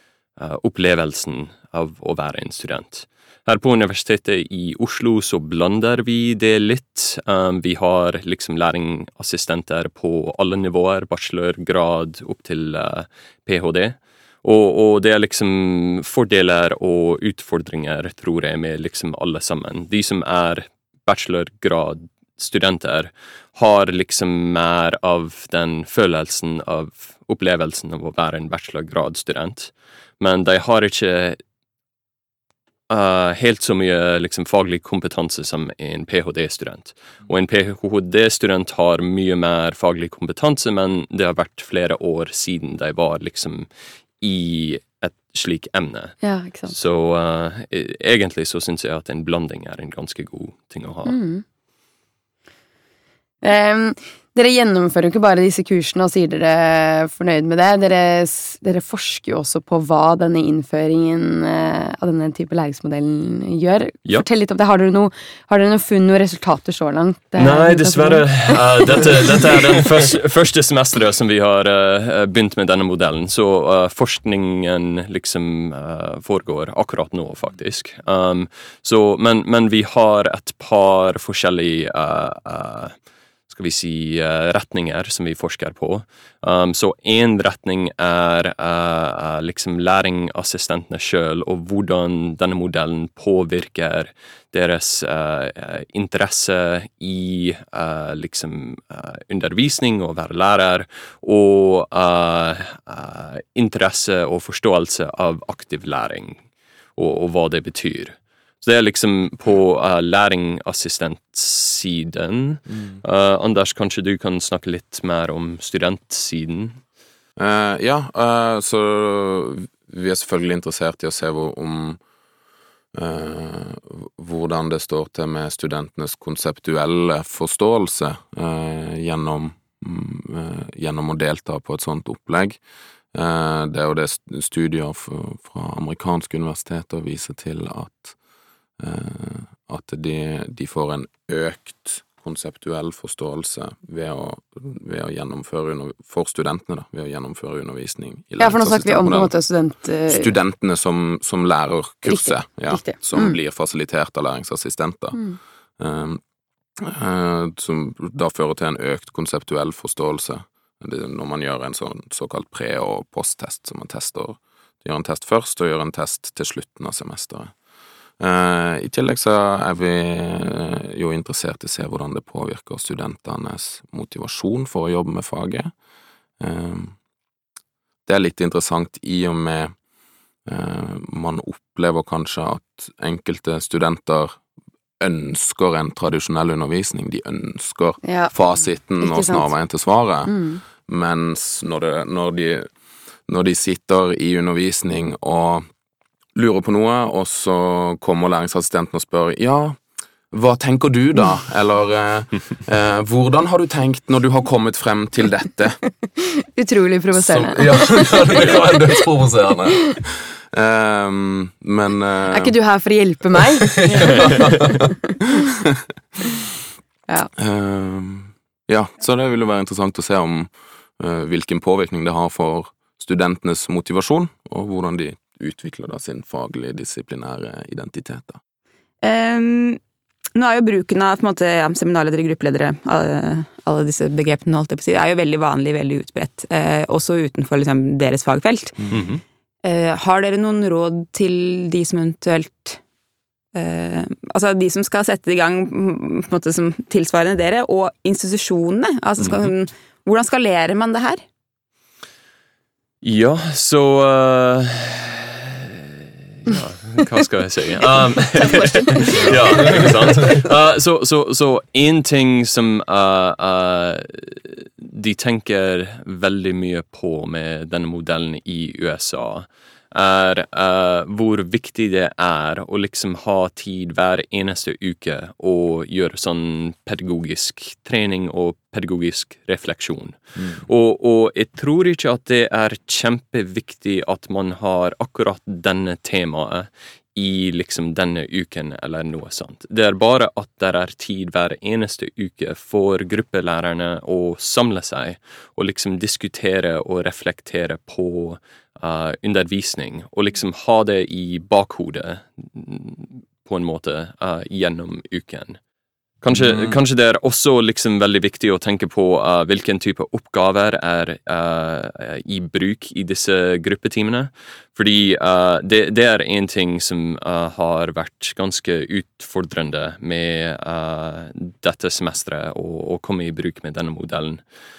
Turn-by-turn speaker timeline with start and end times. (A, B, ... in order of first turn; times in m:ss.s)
0:00.4-0:31.4 A
0:32.9-0:51.2 A
0:46.2-0:46.7 B
0:51.1-0:51.4 B
0:53.4-1:09.5 B
1:07.4-1:22.9 A
1:23.5-1:46.4 A
1:47.0-1:56.8 A
1:57.4-2:02.0 C
2:02.9-2:12.6 C
2:13.1-2:18.2 C
2:18.8-2:29.4 C
2:28.4-2:30.3 B
2:30.1-2:35.2 C
2:32.1-2:33.4 B
2:35.8-2:36.2 C
2:36.8-2:47.5 C
2:48.2-2:55.7 C
2:56.4-2:57.0 C
2:58.1-2:59.7 C
3:00.5-3:04.4 C
3:05.0-3:12.7 C
3:08.0-3:08.3 B
3:09.0-3:09.5 B
3:10.3-3:10.6 B
3:13.3-3:15.6 C
3:16.4-3:25.8 C
3:26.2-3:28.6 B
3:27.1-3:32.6 C
3:32.3-3:35.1 B
3:34.0-3:34.7 C
3:37.4-3:48.4 C
3:49.0-3:49.8 D
3:50.4-3:59.0 D
3:58.9-3:59.2 A
3:59.6-4:02.8 D
4:03.5-4:11.2 D
4:09.2-4:09.5 A
4:13.0-4:15.9 A
4:16.4-5:05.6 A
4:18.6-4:19.4 D
4:19.7-4:20.0 C
5:06.2-5:24.4 A
5:06.3-5:06.8 C